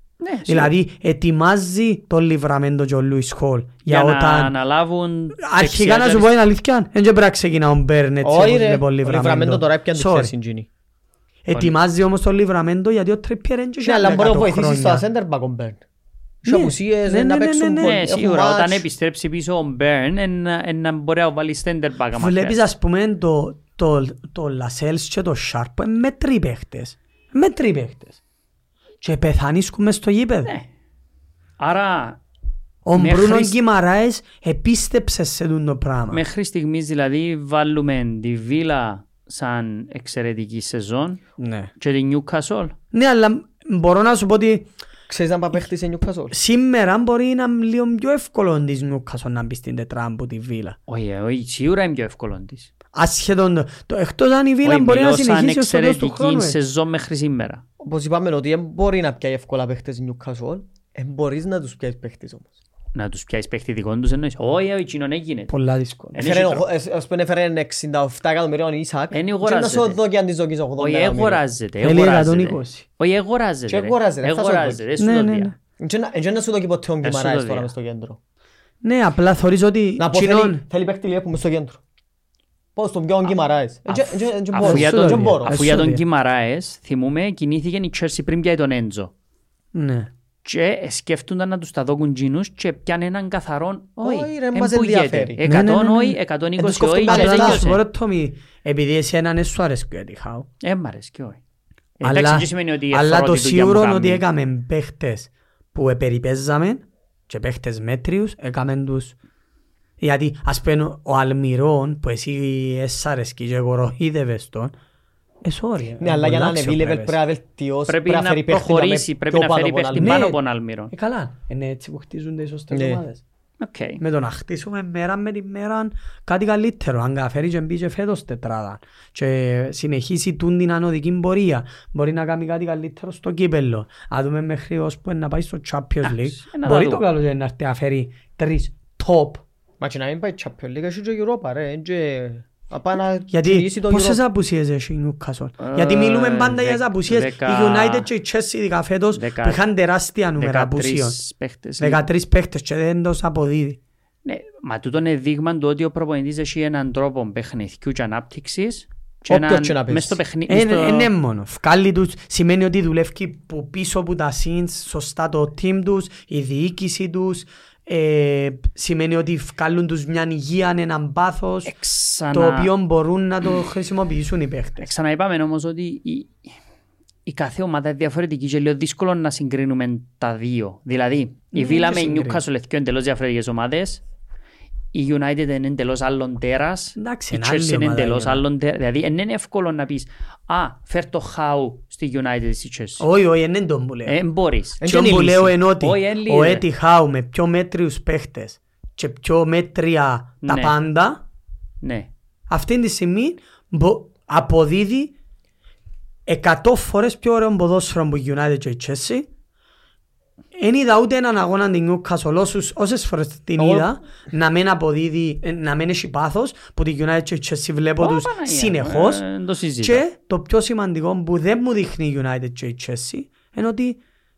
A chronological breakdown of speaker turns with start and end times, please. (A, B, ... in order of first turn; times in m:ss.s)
0:00.2-0:00.7 A
0:00.5-0:04.5 B
0:03.9-0:06.3 A
0:05.4-0:10.3 B
0:08.2-0:10.7 C
0:11.4-0:15.0 B
0:13.8-0:15.8 C
0:16.4-0:18.8 C
0:16.4-0:18.0 B
0:17.8-0:22.6 A
0:22.2-0:28.2 B
0:29.0-0:30.5 B
0:31.6-0:32.2 A
0:32.8-0:36.2 B
0:33.0-0:33.6 A
0:36.1-0:41.2 A
0:41.4-0:41.7 B
0:41.8-0:42.7 A
0:42.9-0:44.7 B
0:45.1-0:46.3 C
0:46.3-0:50.8 B
0:50.9-0:52.7 A
0:52.9-0:56.6 B
0:54.6-0:57.6 A
0:57.8-1:02.6 C
1:02.9-1:05.5 A
1:05.5-1:06.2 B
1:06.1-1:06.6 A
1:06.2-1:11.4 C
1:09.1-1:10.0 A
1:10.8-1:15.5 A
1:11.8-1:12.8 B
1:13.7-1:14.8 C
1:15.0-1:15.5 B
1:15.8-1:18.2 C
1:17.0-1:17.7 A
1:18.8-1:20.6 B
1:20.0-1:21.8 C
1:22.8-1:25.6 C
1:23.9-1:29.1 A
1:24.6-1:26.0 B
1:29.7-1:30.1 B
1:30.4-1:37.8 A
1:34.0-1:35.4 C
1:35.4-1:36.2 B
1:36.6-1:37.6 C
1:37.1-1:40.5 B
1:40.6-1:41.4 A
1:42.0-1:44.2 A
1:42.0-1:49.2 B
1:50.0-1:54.7 B
1:55.4-1:57.2 B
1:56.0-2:00.3 C
1:57.9-2:00.9 A
2:00.0-2:00.4 B
2:00.9-2:03.2 B
2:02.7-2:03.0 C
2:03.6-2:04.0 A
2:04.0-2:19.4 B
2:16.0-2:17.0 A
2:19.8-2:24.2 C
2:23.3-2:31.2 B
2:25.6-2:28.1 A
2:29.1-2:29.6 A
2:30.4-2:32.0 A
2:31.8-2:33.8 B
2:34.2-2:41.1 A
2:39.3-2:40.2 C
2:40.5-2:51.7 B
2:51.6-2:52.7 A
2:52.3-2:54.9 B
2:54.8-2:56.3 A
2:57.2-3:04.0 A
3:01.5-3:02.4 B
3:04.9-3:13.0 A
3:07.0-3:08.4 B
3:13.0-3:14.2 B
3:14.0-3:15.2 A
3:14.8-3:15.5 C
3:14.8-3:21.2 B
3:15.8-3:16.6 A
3:20.4-3:20.8 A
3:21.8-3:22.1 A
3:22.5-3:25.1 B
3:26.2-3:29.3 B
3:30.6-3:39.2 B
3:33.6-3:33.9 C
3:38.0-3:40.0 A
3:39.8-3:44.0 B